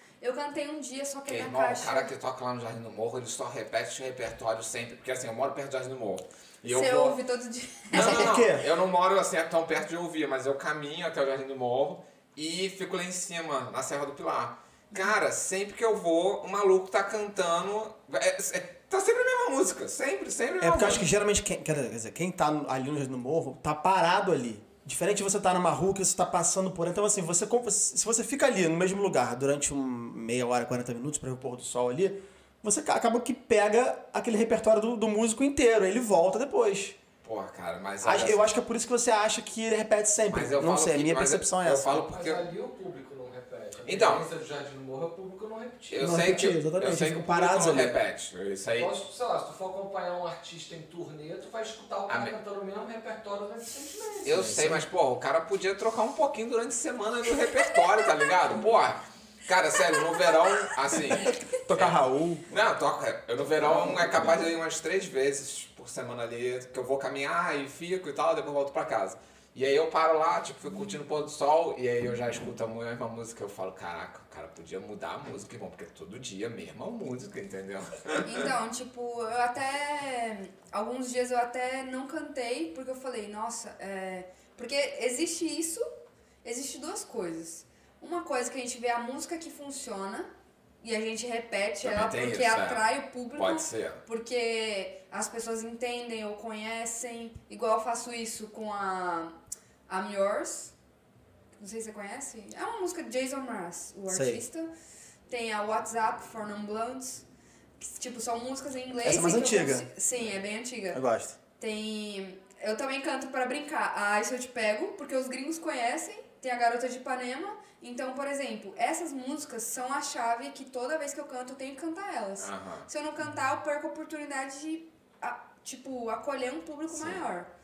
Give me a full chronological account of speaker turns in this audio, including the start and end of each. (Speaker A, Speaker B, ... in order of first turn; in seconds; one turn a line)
Speaker A: 0.2-2.1
Speaker B: 1.3-7.2
Speaker A: 6.7-8.4
Speaker B: 7.9-21.1
Speaker C: 7.9-8.7
Speaker C: 20.6-37.0
Speaker B: 37.2-38.5
Speaker C: 38.0-42.1
Speaker B: 40.3-42.5
Speaker D: 42.1-46.3
Speaker B: 43.8-44.3
Speaker B: 45.9-48.9
Speaker C: 46.0-48.0
Speaker D: 48.8-54.6
Speaker B: 52.1-52.4
Speaker B: 54.2-62.0
Speaker C: 54.3-54.9
Speaker A: 59.9-60.2
Speaker C: 61.3-62.5
Speaker B: 62.5-78.5
Speaker C: 63.6-64.3
Speaker A: 78.2-85.9
Speaker A: 86.4-90.3
Speaker A: 90.8-99.4
Speaker B: 91.8-94.0
Speaker A: 99.9-100.7
Speaker A: 101.6-104.7
Speaker C: 104.1-104.4
Speaker A: 105.3-107.2
Speaker A: 107.8-111.0
Speaker C: 109.0-109.9
Speaker C: 110.9-111.4
Speaker A: 111.6-127.5
Speaker B: 122.4-122.9
Speaker B: 126.9-127.2